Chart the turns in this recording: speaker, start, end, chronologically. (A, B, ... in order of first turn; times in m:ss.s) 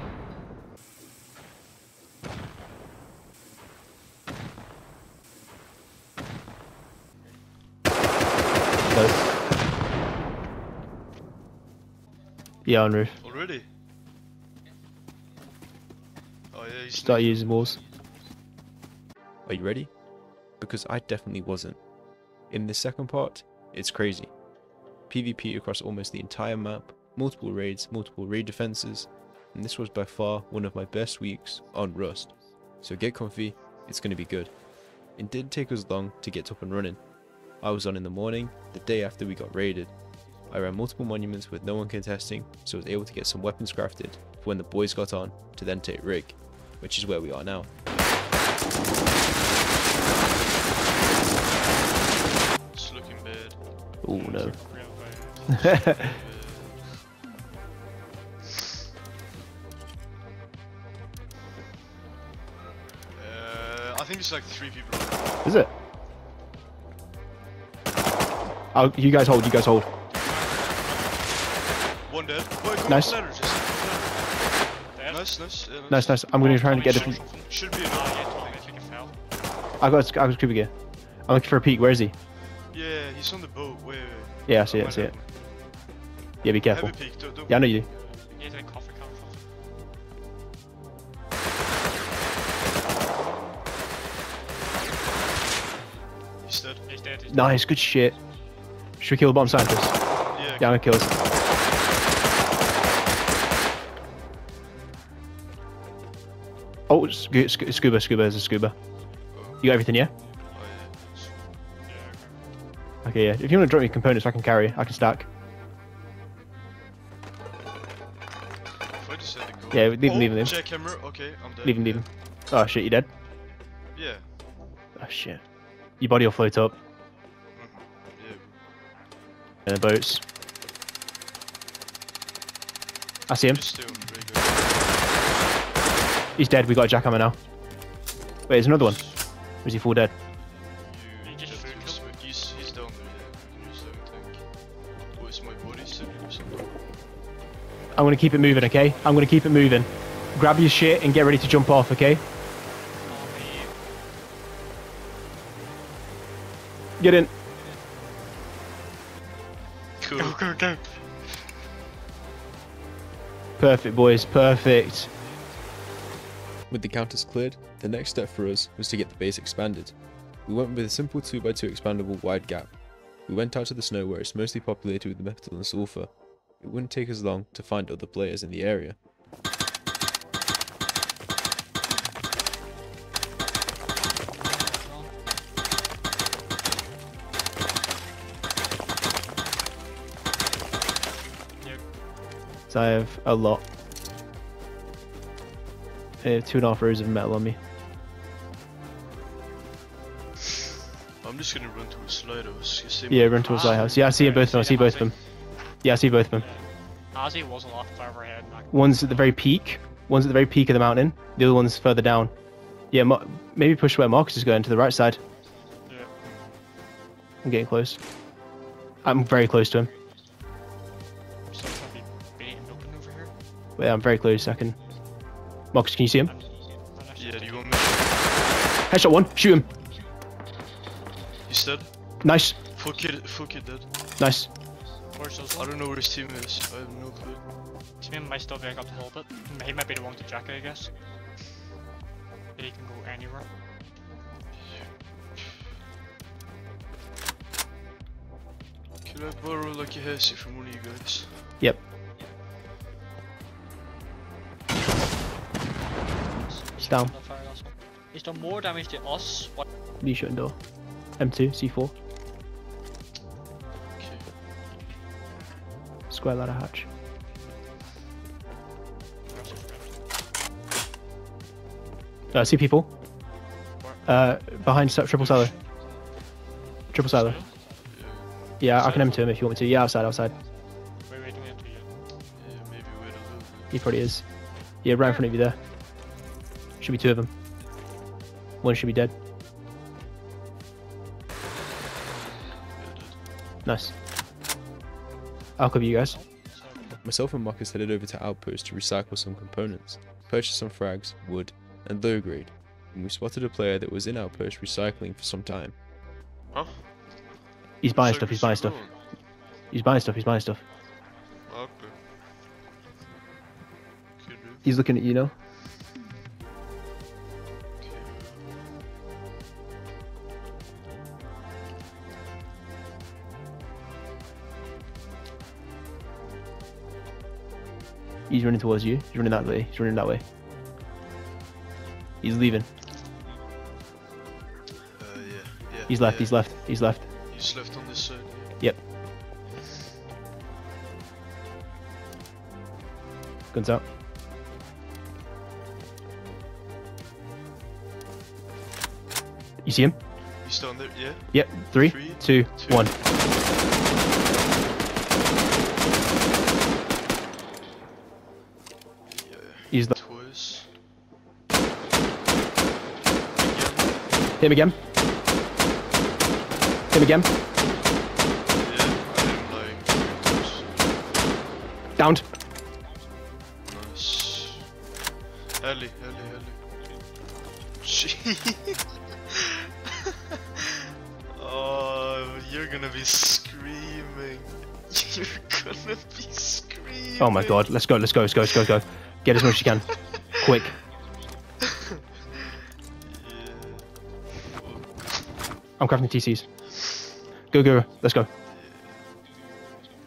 0:08.9-0:09.2 A
0:12.6-0:13.2 A
0:13.2-0:13.7 B
0:16.5-0:17.8 B
0:17.0-0:17.8 A
0:19.4-0:19.9 C
0:20.6-0:21.8 C
0:22.5-0:24.3 C
0:25.1-0:34.5 C
0:35.1-0:39.9 C
0:40.5-0:47.7 C
0:52.7-0:53.6 B
0:54.0-0:54.5 A
0:54.1-0:56.2 D
0:55.8-0:57.0 B
1:03.1-1:05.5 B
1:05.4-1:05.7 A
1:08.7-1:09.9 A
1:10.1-1:11.6 D
1:12.0-1:14.4 B
1:12.9-1:13.2 A
1:14.9-1:15.6 D
1:15.1-1:18.8 B
1:15.9-1:17.2 A
1:16.3-1:19.2 D
1:19.8-1:20.7 A
1:21.2-1:22.1 A
1:22.7-1:25.3 B
1:24.5-1:25.1 A
1:26.4-1:27.9 A
1:26.7-1:28.2 B
1:28.2-1:29.4 D
1:36.4-1:36.8 B
1:36.9-1:37.6 D
1:37.3-1:38.2 A
1:39.0-1:39.9 A
1:40.3-1:41.2 B
1:40.6-1:41.1 A
1:46.9-1:48.7 A
1:49.3-1:49.7 B
1:49.6-1:50.1 A
1:50.5-1:51.5 B
1:51.8-1:52.4 D
1:53.0-1:55.3 A
1:58.9-2:02.0 B
1:59.7-2:00.6 A
2:01.6-2:03.1 A
2:03.9-2:04.3 B
2:05.0-2:05.4 A
2:06.0-2:06.7 A
2:07.5-2:08.5 B
2:09.6-2:10.2 A
2:13.3-2:13.6 A
2:13.5-2:15.1 B
2:16.4-2:17.4 A
2:18.5-2:20.1 A
2:18.6-2:19.2 B
2:20.8-2:24.6 B
2:21.2-2:22.0 D
2:25.1-2:26.8 B
2:27.9-2:32.2 A
2:28.4-2:29.3 D
2:33.0-2:33.7 D
2:37.0-2:37.3 A
2:40.0-2:40.4 B
2:40.2-2:41.4 D
2:43.6-2:45.1 A
2:46.7-2:59.0 C
3:04.4-3:05.1 D
3:12.7-3:13.6 A
3:16.2-3:17.6 A
3:21.2-3:24.0 B
3:23.1-3:25.2 A
3:23.4-3:25.1 D
3:25.8-3:26.4 A
3:26.4-3:29.3 D
3:28.7-3:32.3 A
3:32.9-3:35.2 A
3:35.8-3:36.1 D
3:37.4-3:38.0 A
3:39.0-3:39.9 A
3:41.5-3:43.3 D
3:43.8-3:44.8 A
3:45.7-3:46.3 A
3:46.2-3:48.4 D
3:47.2-3:48.3 B
3:48.9-3:49.6 A
3:51.4-3:52.2 B
3:52.2-3:52.6 A
3:52.7-3:53.9 B
3:54.2-3:54.5 A
3:55.1-3:55.7 D
3:55.5-3:57.4 B
3:58.0-4:00.9 D
4:02.6-4:03.5 D
4:09.0-4:11.5 B
4:16.3-4:19.6 D
4:16.8-4:17.1 A
4:20.0-4:20.6 A
4:21.1-4:21.9 A
4:23.9-4:24.3 B
4:26.1-4:26.8 A
4:29.3-4:30.0 D
4:32.3-4:32.9 A
4:33.8-4:34.1 D
4:34.0-4:35.5 A
4:35.2-4:35.5 D
4:36.9-4:37.4 A
4:37.0-4:37.5 D
4:37.9-4:38.4 B
4:38.6-4:40.3 A
4:38.7-4:39.1 D
4:41.1-4:41.9 D
4:42.3-4:43.8 B
4:43.7-4:45.6 A
4:46.8-4:47.3 A
4:48.6-4:49.1 A
4:52.7-4:53.2 B
4:53.6-4:53.9 A
4:55.6-4:56.2 A
4:56.1-4:56.9 D
4:57.0-5:05.8 C
5:06.5-5:06.9 B
5:07.8-5:08.8 A
5:07.9-5:08.9 B
5:09.7-5:10.6 A
5:11.5-5:12.0 B
5:14.2-5:14.6 B
5:14.6-5:15.3 A
5:17.8-5:18.4 B
5:28.3-5:30.2 A
5:32.2-5:32.7 A
5:34.9-5:36.7 B
5:35.9-5:37.0 A
5:37.2-5:38.6 B
5:43.5-5:43.8 A
5:49.6-5:50.0 A
5:50.4-5:53.0 B
5:51.3-5:52.9 A
5:59.1-6:00.7 B
5:59.7-6:00.0 A
6:03.3-6:04.1 B
6:04.4-6:04.8 A
6:06.9-6:07.3 A
6:08.5-6:10.7 B
6:12.0-6:12.3 A
6:13.6-6:14.7 B
6:15.6-6:16.6 B
6:17.8-6:18.8 B
6:21.3-6:27.7 B
6:27.2-6:30.8 A
6:33.0-6:35.4 B
6:35.8-6:36.9 A
6:37.5-6:38.3 A
6:38.4-6:39.0 B